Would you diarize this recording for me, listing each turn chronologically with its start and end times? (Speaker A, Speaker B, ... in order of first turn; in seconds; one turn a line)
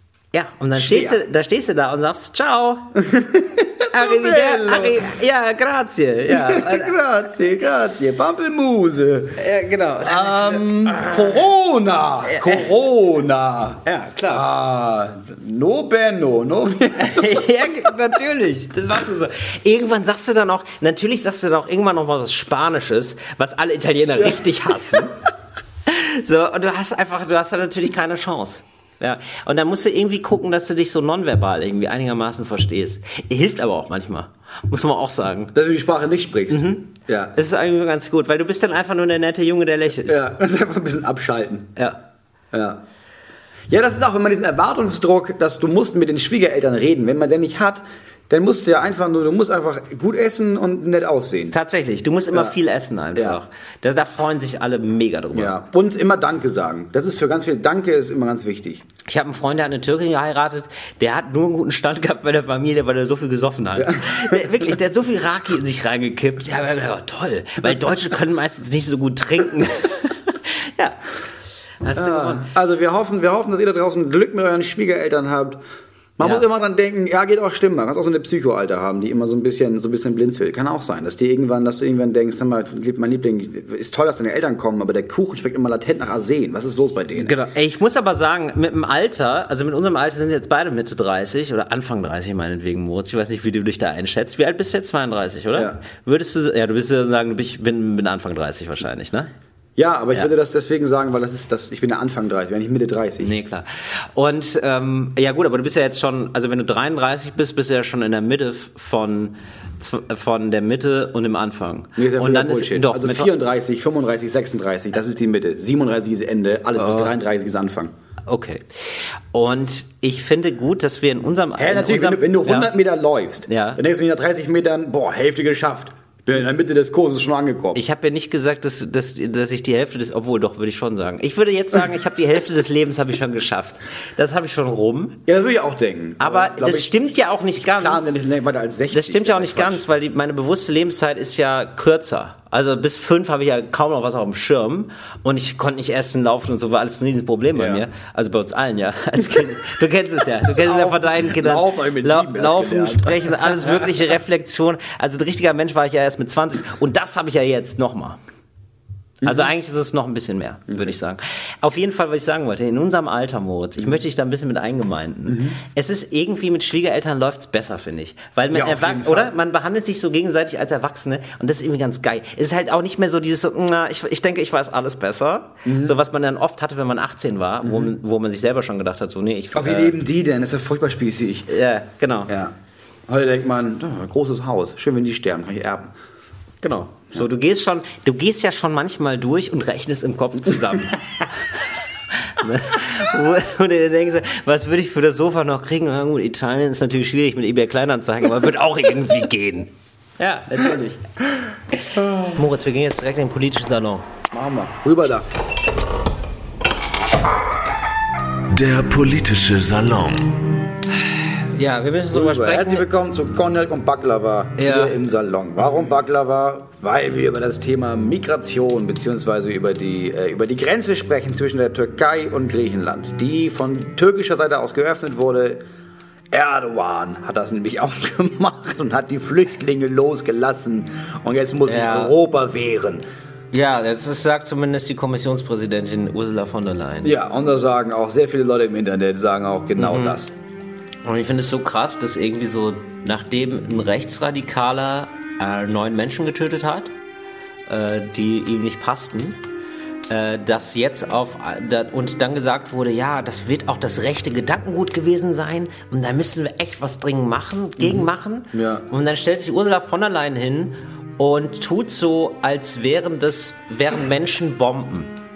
Speaker A: 0.3-3.0
Speaker B: 0.7-1.2
Speaker B: 3.0-5.1
Speaker A: 3.9-6.9
Speaker B: 6.3-9.4
Speaker A: 9.4-11.4
Speaker B: 10.0-17.5
Speaker A: 12.2-12.7
Speaker A: 13.8-14.4
Speaker A: 17.0-25.1
Speaker A: 25.9-35.5
Speaker B: 35.5-37.3
Speaker A: 36.5-40.2
Speaker B: 40.0-41.8
Speaker B: 42.5-42.8
Speaker B: 43.7-51.5
Speaker A: 51.5-55.6
Speaker B: 55.3-58.8
Speaker A: 59.1-71.0
Speaker B: 63.8-64.7
Speaker A: 71.8-72.5
Speaker B: 71.9-75.6
Speaker B: 76.2-87.3
Speaker A: 87.2-99.3
Speaker B: 95.5-95.8
Speaker B: 99.8-103.3
Speaker A: 103.2-113.3
Speaker B: 112.0-117.9
Speaker A: 116.8-117.1
Speaker A: 118.3-122.7
Speaker B: 121.6-127.8
Speaker A: 123.5-123.8
Speaker A: 127.7-135.2
Speaker B: 135.2-139.8
Speaker A: 136.2-138.1
Speaker A: 138.9-158.2
Speaker B: 147.5-147.8
Speaker B: 150.5-154.1
Speaker B: 159.2-159.5
Speaker A: 159.2-179.9
Speaker B: 165.3-165.6
Speaker B: 168.5-169.3
Speaker B: 175.6-176.0
Speaker B: 177.6-177.9
Speaker B: 179.5-181.5
Speaker A: 181.5-182.3
Speaker B: 182.3-182.5
Speaker B: 183.1-185.9
Speaker A: 186.6-191.6
Speaker A: 192.2-201.0
Speaker A: 201.8-204.1
Speaker B: 201.9-202.4
Speaker B: 204.3-205.2
Speaker C: 208.5-210.5
Speaker A: 211.1-212.8
Speaker B: 212.1-225.6
Speaker A: 214.6-214.9
Speaker B: 226.3-233.0
Speaker A: 231.7-232.1
Speaker A: 233.5-237.1
Speaker B: 237.0-240.3
Speaker A: 239.8-240.2
Speaker A: 241.0-246.9
Speaker A: 247.7-249.4
Speaker A: 250.1-265.1
Speaker B: 257.8-258.8